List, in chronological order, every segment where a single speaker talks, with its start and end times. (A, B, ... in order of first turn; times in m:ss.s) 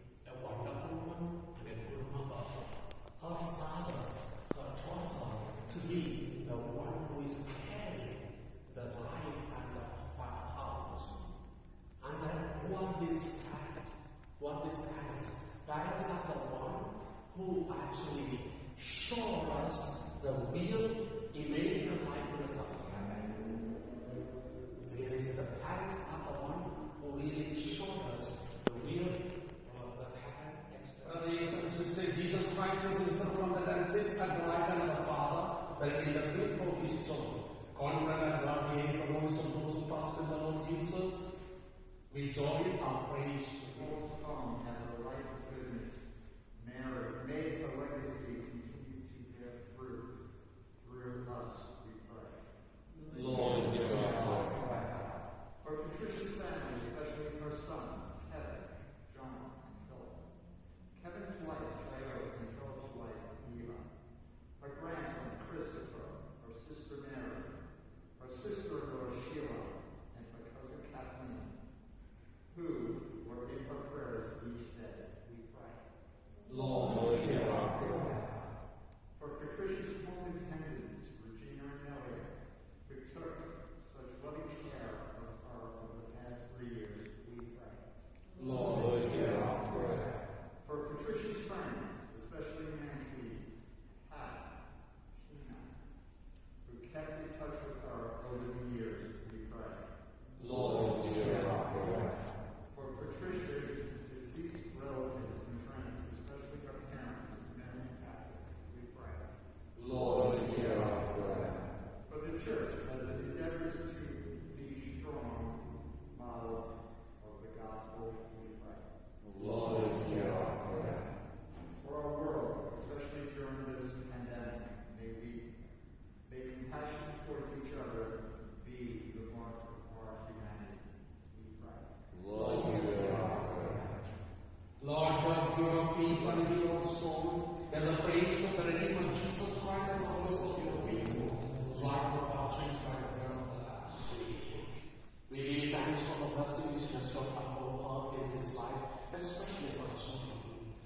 0:00.2-0:11.2 A
0:12.0-0:23.4 A
0:24.9-0:31.2 A
0:31.0-0:41.2 B
0:42.1-0:43.8 B
0:43.7-0:46.0 C
0:46.6-0:50.1 C
0:50.8-0:52.4 C
0:53.2-0:54.3 B
0:55.6-1:00.2 C
1:01.0-1:03.9 C
1:04.6-1:07.5 C
1:08.2-1:11.6 C
1:12.5-1:15.8 C
1:16.7-1:17.7 B
1:19.2-1:22.3 C
1:22.9-1:27.8 C
1:28.6-1:29.2 B
1:30.7-1:33.5 C
1:34.0-1:34.5 C
1:35.2-1:35.7 C
1:36.7-1:39.9 C
1:40.5-1:41.5 B
1:42.7-1:49.3 C
1:52.1-1:56.7 C
1:57.2-1:58.9 C
2:01.8-2:05.5 C
2:06.3-2:12.0 C
2:12.3-2:13.1 B
2:14.8-2:24.1 B
2:24.1-2:24.6 A
2:25.3-2:30.7 A